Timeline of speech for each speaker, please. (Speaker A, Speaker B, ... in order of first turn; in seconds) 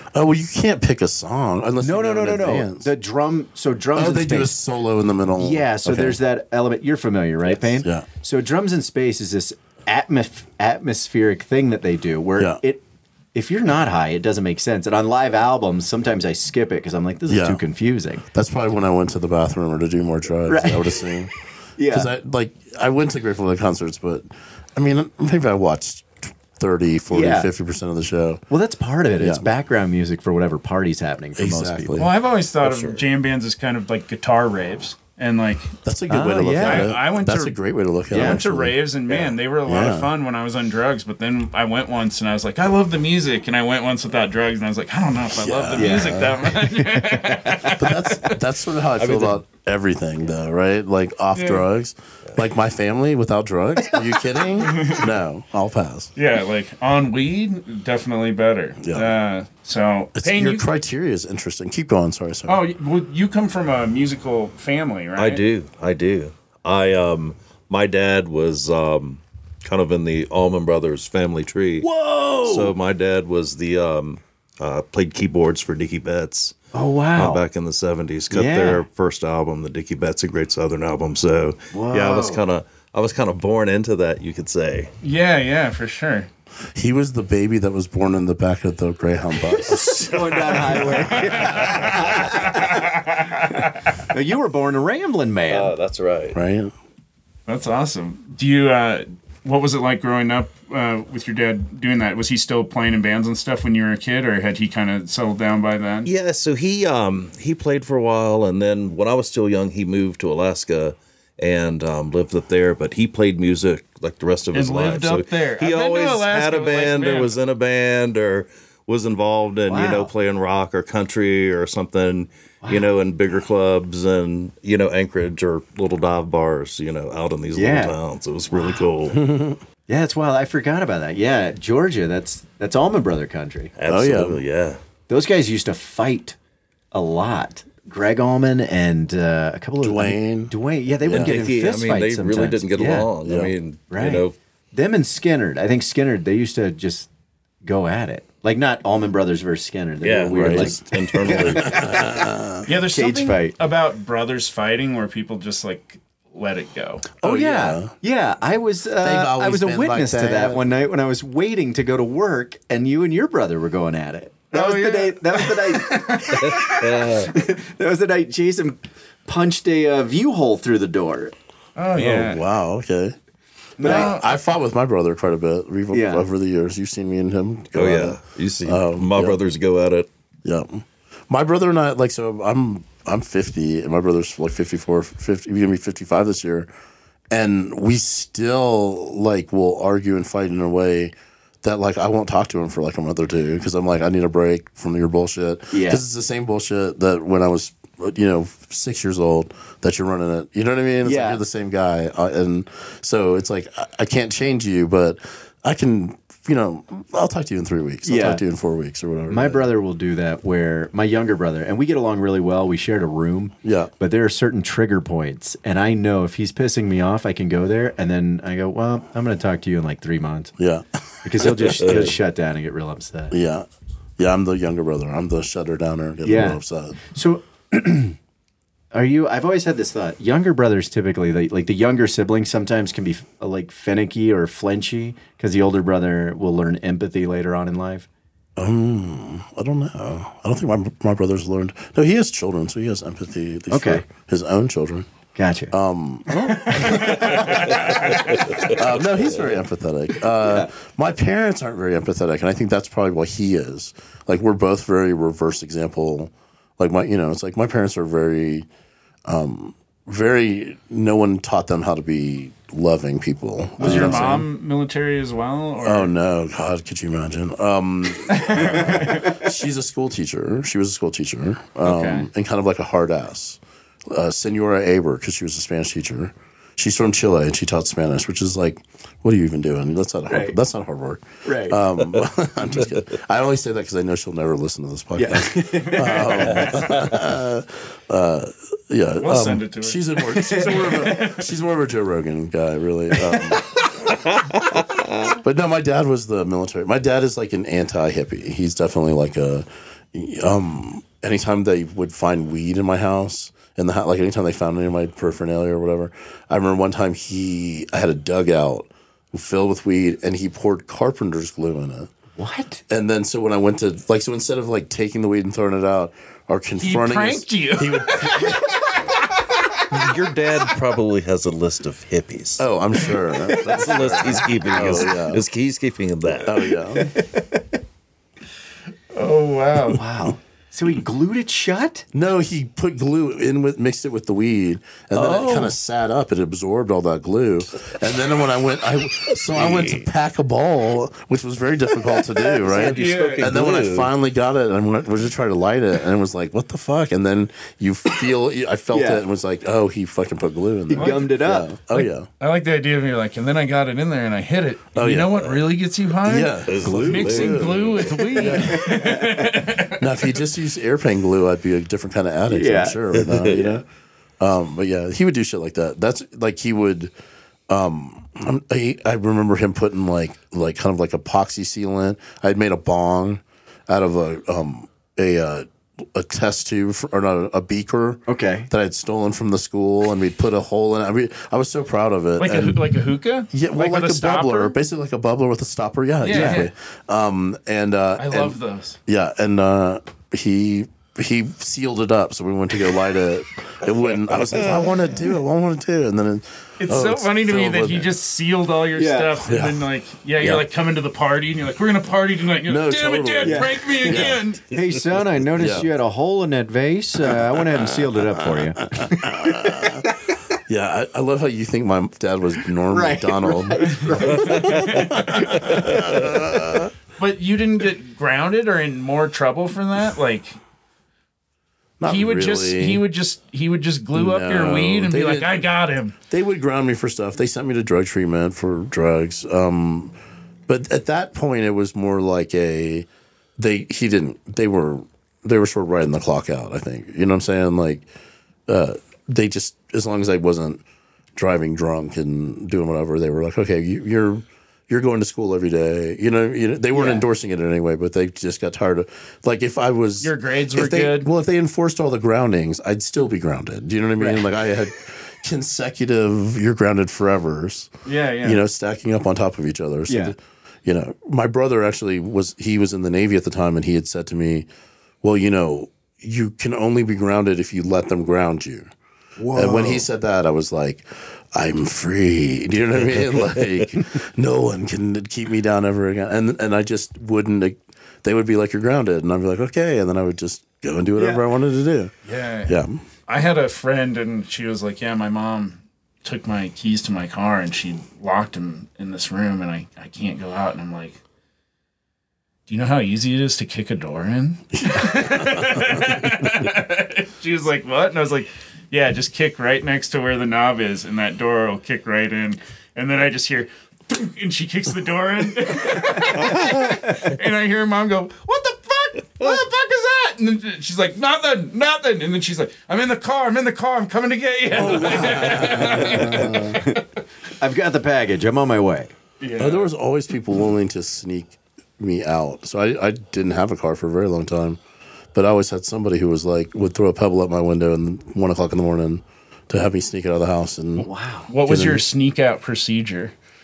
Speaker A: 0.1-2.9, 3.9-6.2, 17.3-17.6, 18.3-21.3, 21.9-28.4, 29.2-29.5, 31.4-32.1, 35.8-38.8, 39.6-40.1, 45.3-46.5, 47.6-56.1, 58.8-59.1, 60.1-62.6, 86.7-90.1, 96.3-96.7, 129.1-129.6, 133.8-134.4, 139.8-140.5, 141.0-141.4, 143.2-143.5, 150.3-152.7, 157.2-157.9, 159.0-160.6, 171.9-173.1, 173.8-179.4, 180.4-186.7, 187.3-209.7, 213.6-213.9, 220.6-220.8, 221.3-222.1, 223.3-223.7, 224.2-227.0, 238.6-245.1, 245.7-258.7, 259.2-264.5, 265.8-294.2, 295.2-312.1, 312.9-318.7, 322.6-325.4, 326.4-327.1, 332.1-352.3, 354.9-359.1, 359.9-363.9, 364.4-367.1, 367.7-382.9, 383.5-398.1, 399.4-399.8, 402.6-404.4, 405.5-405.9, 407.2-410.1, 410.6-416.9, 422.0-423.0, 424.1-425.6, 426.3-430.1, 430.7-433.1, 433.6-438.1, 438.7-440.8, 441.4-457.9, 458.4-464.7, 465.2-468.9, 469.5-482.1, 482.6-483.0, 494.9-496.7, 514.7-516.8, 519.6-524.8, 525.3-531.1, 531.6-532.0
Speaker B: 1.8-4.5, 5.4-12.8, 13.3-18.2, 20.5-21.1, 21.8-22.1, 27.1-27.5, 28.5-32.1, 36.1-36.9, 38.1-38.4, 45.8-47.5, 71.8-72.7, 76.7-77.4, 78.3-78.8, 81.7-82.4, 89.7-92.8, 94.1-95.7, 119.7-120.1, 127.5-128.0, 128.5-128.9, 129.9-133.7, 135.1-136.3, 136.9-143.1, 143.9-147.1, 147.6-153.5, 157.2-171.3, 173.8-174.2, 175.9-176.2, 195.7-196.0, 201.0-201.4, 208.0-208.4, 209.3-220.6, 221.2-223.3, 226.2-228.2, 228.9-238.1, 243.7-244.0, 245.3-245.7, 246.6-248.2, 250.4-250.7, 263.8-264.1, 280.3-280.6, 281.4-281.8, 285.1-286.7, 290.3-291.3, 312.4-312.8, 326.9-327.7, 329.9-332.1, 348.9-349.2, 350.9-351.7, 358.5-359.6, 362.5-363.0, 378.3-378.7, 386.3-386.6, 398.9-399.4, 403.4-410.3, 412.9-415.9, 446.9-447.2, 454.2-454.4, 460.1-460.3, 469.4-470.1, 481.2-481.4, 515.2-517.0, 517.6-519.1, 531.0-531.5
Speaker C: 32.0-35.7, 36.5-37.5, 38.1-48.3, 51.3-51.6, 54.6-55.1, 56.1-60.6, 62.5-65.4, 85.0-86.3, 91.2-93.5, 97.5-106.1, 114.5-117.3, 152.7-157.1, 164.5-166.6, 171.8-172.4, 173.8-174.3, 247.2-248.3, 263.8-266.1, 268.3-269.3, 271.8-272.3, 289.2-291.1, 316.8-318.8, 329.1-330.0, 335.3-335.7, 342.8-343.6, 350.9-351.3, 351.9-360.0, 382.4-384.7, 386.2-386.7, 388.2-389.0, 396.8-404.6, 414.6-415.1, 417.2-420.6, 422.0-426.1, 450.2-451.3, 458.0-458.6, 482.2-491.2, 492.7-517.0, 519.4-519.9, 531.5-533.3
Speaker D: 32.6-33.0, 49.0-49.4, 65.2-71.9, 72.4-76.6, 77.1-84.9, 89.5-92.2, 95.5-96.4, 106.0-129.2, 133.8-134.8, 141.1-144.3, 150.0-152.0, 166.4-167.3, 177.7-180.1, 221.7-222.1, 294.3-295.3, 319.9-322.6, 323.5-326.7, 339.5-340.0, 342.6-344.1, 356.6-358.2, 363.1-363.7, 414.2-416.2